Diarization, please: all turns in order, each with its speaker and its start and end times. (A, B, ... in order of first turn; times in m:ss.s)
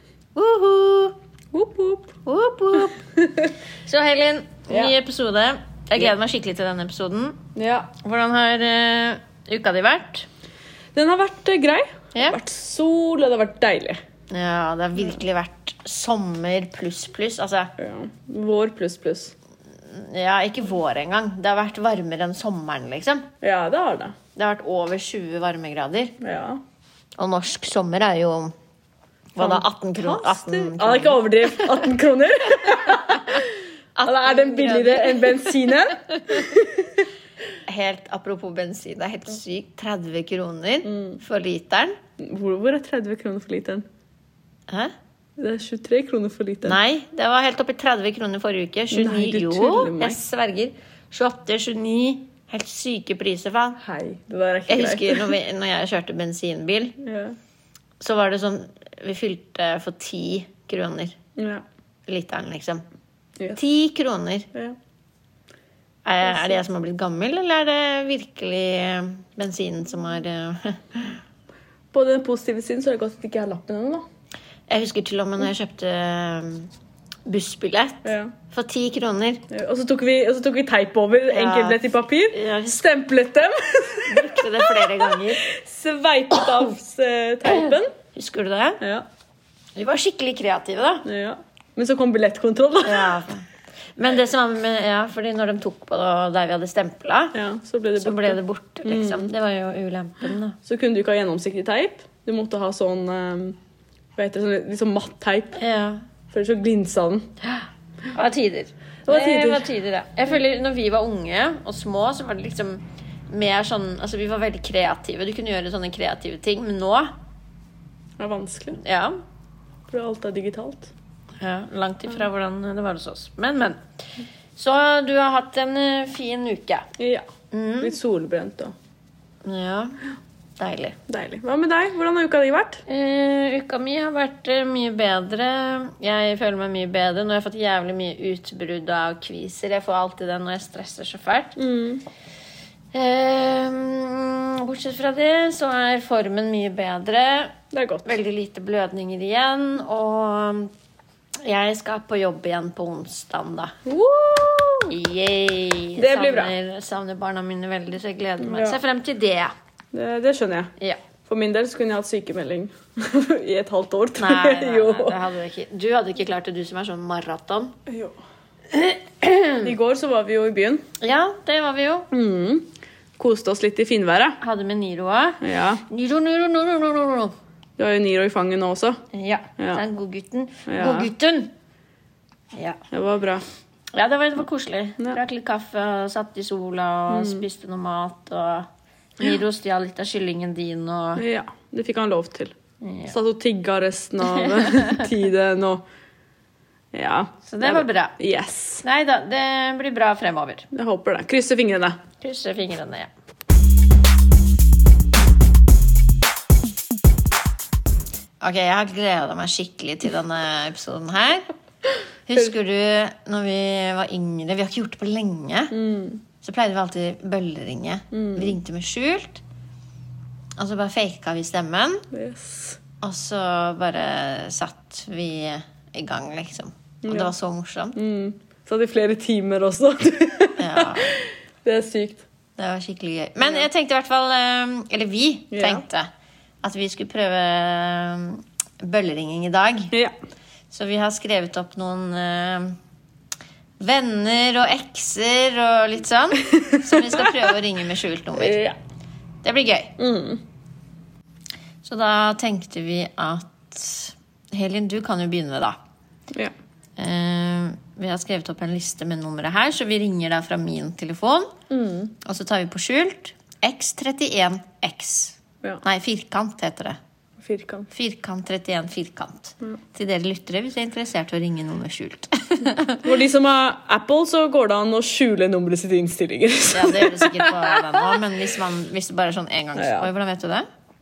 0:00.4-0:01.2 A
0:01.5-0:02.1 B
0:02.2-0:03.0 A
0:03.2-0:03.5 B
0:03.8-0:07.4 A
0:04.7-0:04.9 B
0:07.6-0:07.9 B
0:08.0-0:10.3 A
0:11.0-0:14.0 B
0:12.1-0:12.4 A
0:14.3-0:17.7 A
0:17.8-0:19.4 B
0:19.8-0:23.3 A
0:23.4-0:24.2 B
0:24.4-0:26.1 A
0:26.2-0:26.6 B
0:27.2-0:28.6 A
0:29.4-0:31.8 A
0:29.4-0:33.5 B
0:32.6-0:33.4 A
0:34.0-0:36.5 A
0:34.0-0:37.0 B
0:37.7-0:42.0 A
0:40.8-0:41.2 B
0:42.2-0:43.8 B
0:44.7-0:44.9 A
0:45.4-0:46.8 B
0:46.6-0:53.8 A
0:48.9-0:50.2 B
0:53.8-0:55.3 B
0:54.7-0:57.0 A
0:57.0-0:57.4 B
0:58.0-1:01.2 A
1:01.4-1:01.6 B
1:02.1-1:02.8 A
1:03.5-1:04.5 A
1:06.0-1:11.2 A
1:06.3-1:06.6 B
1:11.9-1:14.1 B
1:14.7-1:16.7 A
1:17.3-1:19.4 A
1:18.0-1:18.3 B
1:19.5-1:27.9 B
1:21.3-1:22.8 A
1:24.1-1:25.4 A
1:27.5-1:28.8 A
1:28.8-1:29.1 B
1:29.8-1:31.0 A
1:31.0-1:33.2 B
1:32.8-1:37.4 A
1:37.3-1:39.3 B
1:38.0-1:40.6 A
1:40.6-1:43.6 B
1:44.2-1:45.6 B
1:45.6-1:46.1 A
1:46.3-1:47.3 B
1:47.4-1:57.1 A
1:49.1-1:49.7 B
1:58.2-1:58.8 B
1:58.8-1:59.2 A
1:59.9-2:00.9 B
2:01.4-2:03.8 A
2:04.6-2:06.9 A
2:07.0-2:07.3 B
2:07.5-2:08.0 A
2:07.8-2:08.8 B
2:09.4-2:10.0 A
2:10.6-2:11.0 A
2:11.1-2:12.8 B
2:12.9-2:21.6 A
2:21.6-2:22.0 B
2:22.9-2:30.7 A
2:27.7-2:28.1 B
2:31.4-2:33.7 A
2:33.8-2:34.9 B
2:34.9-2:39.5 A
2:36.0-2:36.5 B
2:38.4-2:38.8 B
2:39.9-2:40.7 B
2:41.3-2:45.2 B
2:44.2-2:47.8 A
2:47.9-2:48.2 B
2:48.7-2:49.7 A
2:49.6-2:50.8 B
2:51.0-2:52.1 A
2:52.1-2:54.4 B
2:54.4-2:57.4 A
2:55.4-2:55.8 B
2:57.8-2:59.0 B
2:59.1-3:01.5 A
3:00.7-3:01.1 B
3:02.5-3:02.8 A
3:02.9-3:03.4 B
3:03.9-3:11.2 A
3:07.1-3:07.4 B
3:11.2-3:12.6 B
3:12.8-3:13.1 A
3:13.1-3:15.8 B
3:14.4-3:15.0 A
3:16.9-3:18.8 B
3:17.5-3:18.2 A
3:18.8-3:20.7 A
3:20.7-3:22.0 B
3:22.2-3:23.1 A
3:28.4-3:31.5 A
3:32.3-3:35.8 A
3:35.7-3:36.2 B
3:36.4-3:39.4 A
3:38.1-3:38.6 B
3:40.6-3:42.1 A
3:42.1-3:42.8 B
3:43.0-3:48.0 A
3:47.0-3:47.3 B
3:48.0-3:52.2 B
3:50.6-3:51.1 A
3:52.6-3:56.1 A
3:53.4-3:53.7 B
3:55.5-3:55.8 B
3:56.6-3:59.9 A
4:00.7-4:02.8 A
4:03.8-4:08.6 A
4:06.6-4:07.5 B
4:08.3-4:08.8 B
4:09.4-4:09.9 A
4:10.0-4:10.4 B
4:11.8-4:15.8 A
4:17.0-4:21.5 A
4:21.7-4:22.1 B
4:22.2-4:27.0 A
4:27.4-4:27.9 B
4:27.9-4:33.1 A
4:33.0-4:38.2 B
4:36.7-4:40.7 A
4:39.8-4:40.1 B